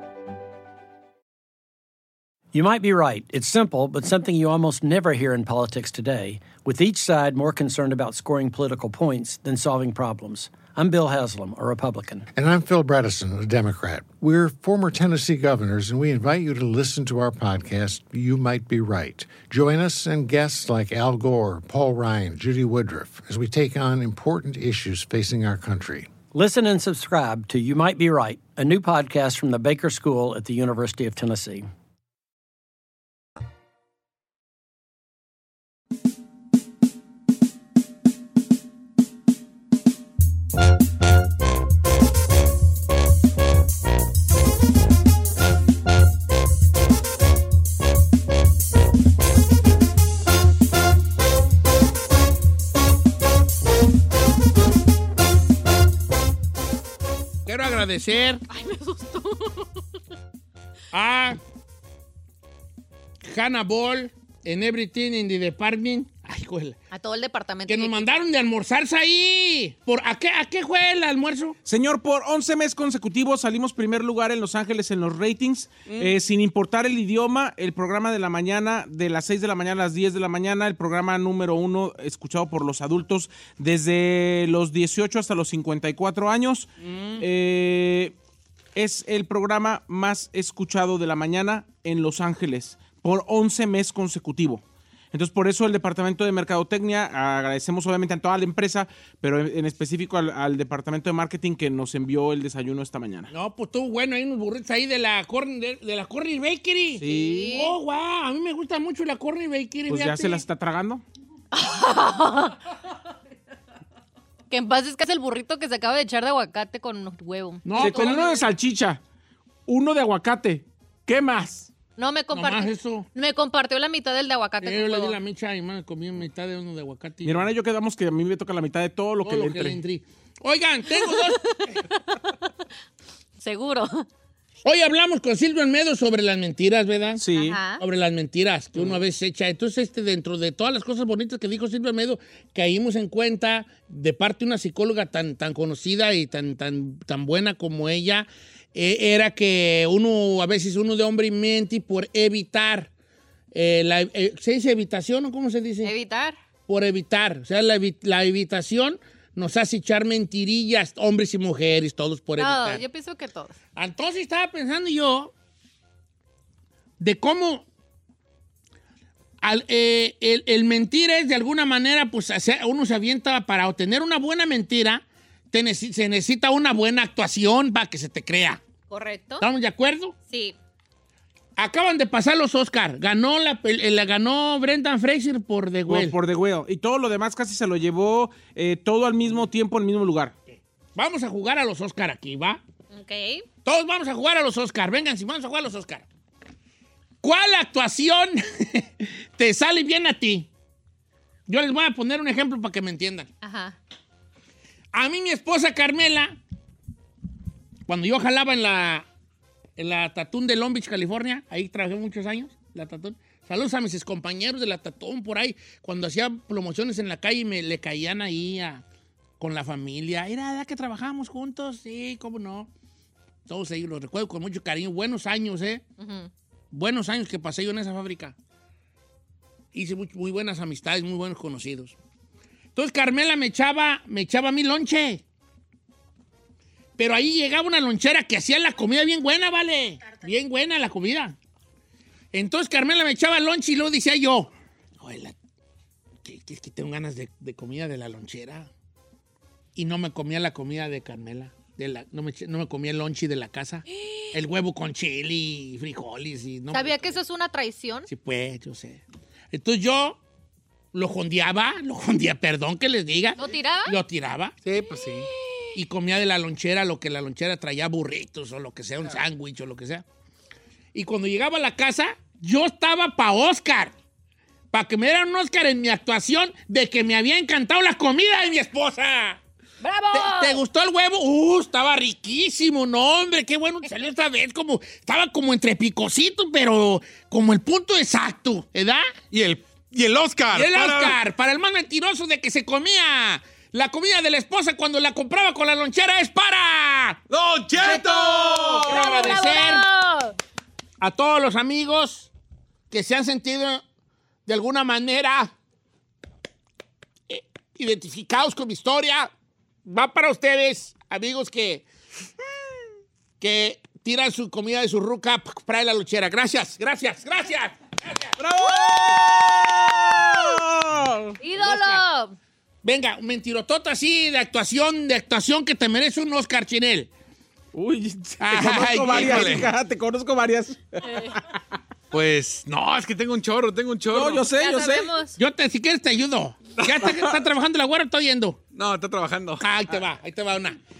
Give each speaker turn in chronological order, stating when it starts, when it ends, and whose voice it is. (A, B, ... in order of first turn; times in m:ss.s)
0:02.5-0:12.3 A
0:12.3-0:26.1 B
0:26.3-0:31.7 A
0:57.4-0:58.4 C
0:58.5-0:59.7 D
1:00.9-1:01.4 C
1:03.2-1:06.8 C
1:06.9-1:08.2 D
1:07.7-1:11.6 C
1:11.6-1:28.1 E
1:15.9-1:16.2 C
1:26.8-1:27.2 C
1:28.7-1:43.3 E
1:43.3-1:50.4 C
1:47.0-1:47.4 E
1:47.0-1:47.7 D
1:49.9-1:51.0 E
1:51.5-1:52.6 D
1:54.5-1:58.4 D
1:57.6-1:58.4 C
1:57.7-1:59.0 E
1:59.7-2:01.7 E
2:02.0-2:05.2 D
2:02.3-2:03.0 C
2:04.6-2:07.5 C
2:07.2-2:09.8 E
2:09.2-2:11.8 C
2:13.4-2:14.0 D
2:14.6-2:32.9 C
2:17.2-2:17.6 E
2:17.3-2:17.8 D
2:33.5-2:35.9 C
2:35.8-2:36.4 D
2:36.7-2:42.8 C
2:42.4-2:43.6 D
2:43.8-2:45.3 C
2:47.0-2:47.6 C
2:49.4-2:58.6 C
2:58.9-2:59.4 D
2:59.4-3:00.1 C
3:00.3-3:00.6 D
3:01.6-3:06.2 C
3:05.9-3:10.3 E
3:10.9-3:12.6 C
3:12.9-3:13.4 D
3:13.6-3:16.0 C
3:17.2-3:20.5 C
3:21.5-3:23.3 C
3:23.4-3:23.8 D
3:24.9-3:26.4 C
3:27.9-3:29.0 C
3:29.8-3:38.8 C
3:39.4-3:42.7 C
3:43.4-3:45.8 C
3:46.0-3:46.3 D
3:46.7-3:48.3 C
3:49.7-3:52.0 C
3:52.7-3:55.2 C
3:57.0-4:01.4 C
4:02.3-4:05.3 C
4:06.2-4:08.7 C
4:09.8-4:17.2 C
4:16.7-4:18.1 D
4:18.1-4:20.2 C
4:20.9-4:24.6 C
4:23.4-4:24.0 D
4:24.6-4:25.3 F
4:25.7-4:30.0 C
4:30.9-4:33.9 C
4:34.7-4:39.4 C
4:39.8-4:40.6 D
4:40.1-4:49.1 C
4:49.3-4:51.2 F
4:50.5-4:57.2 C
4:57.3-4:59.2 F
4:57.8-4:59.8 C
4:58.8-5:00.3 D
5:01.0-5:02.3 C
5:02.9-5:03.8 C
5:04.4-5:05.5 C
5:07.3-5:09.3 C
5:09.8-5:11.8 C
5:13.4-5:18.4 C
5:18.4-5:21.4 E
5:21.4-5:22.4 D
5:21.5-5:22.0 C
5:22.8-5:27.1 C
5:27.7-5:31.3 E
5:28.4-5:29.7 C
5:29.1-5:29.7 F
5:32.1-5:34.4 F
5:34.1-5:35.1 E
5:34.5-5:35.4 D
5:35.4-5:38.6 C
5:36.8-5:37.3 F
5:38.7-5:39.6 F
5:39.6-5:40.8 C